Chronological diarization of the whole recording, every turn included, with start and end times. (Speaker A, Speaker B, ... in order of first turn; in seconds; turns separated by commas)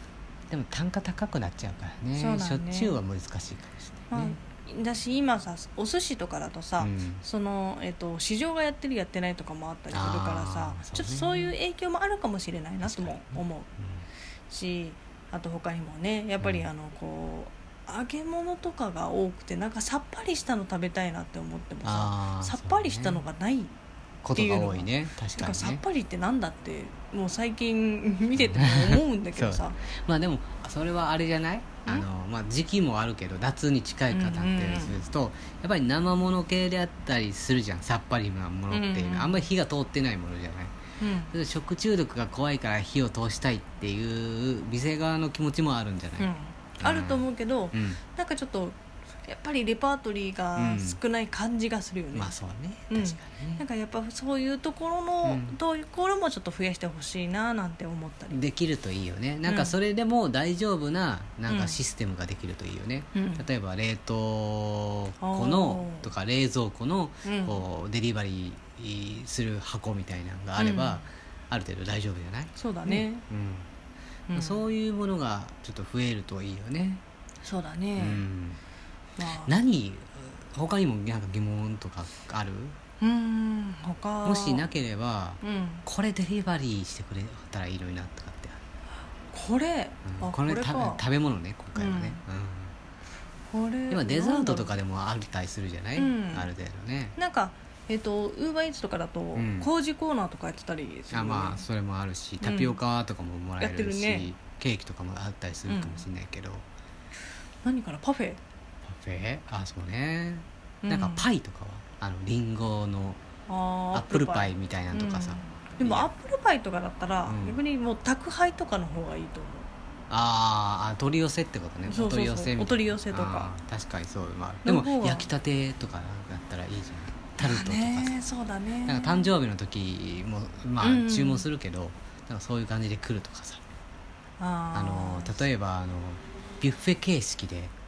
Speaker A: 0.5-4.4, Speaker B: 2.1-3.0, Speaker B: 4.1-13.7, Speaker A: 6.8-7.2, Speaker A: 9.9-11.6, Speaker A: 12.8-14.1, Speaker B: 14.5-23.7, Speaker A: 16.4-16.7, Speaker A: 21.8-23.2, Speaker A: 24.2-25.8, Speaker B: 24.4-29.8, Speaker A: 28.4-40.7, Speaker B: 34.1-35.0, Speaker B: 38.7-39.5, Speaker B: 41.0-41.3, Speaker A: 41.3-48.0, Speaker B: 46.2-52.4, Speaker A: 50.6-51.0, Speaker A: 52.1-53.6, Speaker B: 52.9-58.4, Speaker A: 55.2-55.6, Speaker A: 58.3-73.7, Speaker B: 59.5-59.8, Speaker B: 61.5-61.8, Speaker B: 63.1-63.5, Speaker B: 65.2-66.1, Speaker B: 67.2-67.6, Speaker B: 70.6-71.0, Speaker B: 72.5-73.2, Speaker B: 74.3-74.6, Speaker A: 74.3-77.0, Speaker B: 77.4-78.2, Speaker A: 78.0-78.6, Speaker B: 79.2-79.5, Speaker A: 79.4-82.8, Speaker B: 83.0-84.7, Speaker A: 84.2-88.6, Speaker B: 85.4-85.8, Speaker B: 89.3-91.0, Speaker A: 90.1-92.7, Speaker B: 91.8-92.2, Speaker B: 93.5-94.7, Speaker A: 93.9-97.2, Speaker B: 96.0-96.5, Speaker B: 97.2-101.6, Speaker A: 99.3-99.7, Speaker A: 101.1-106.6, Speaker B: 102.4-102.8, Speaker B: 103.6-104.3, Speaker B: 105.7-106.1, Speaker B: 107.6-108.4, Speaker A: 108.8-113.2, Speaker B: 110.8-111.2, Speaker B: 113.5-119.7, Speaker A: 113.9-116.1, Speaker A: 117.3-117.6, Speaker A: 120.1-128.1, Speaker B: 121.9-123.5, Speaker B: 124.6-125.3, Speaker B: 127.4-129.3, Speaker A: 128.9-133.6, Speaker B: 130.8-131.5, Speaker B: 134.4-135.4, Speaker A: 134.7-137.7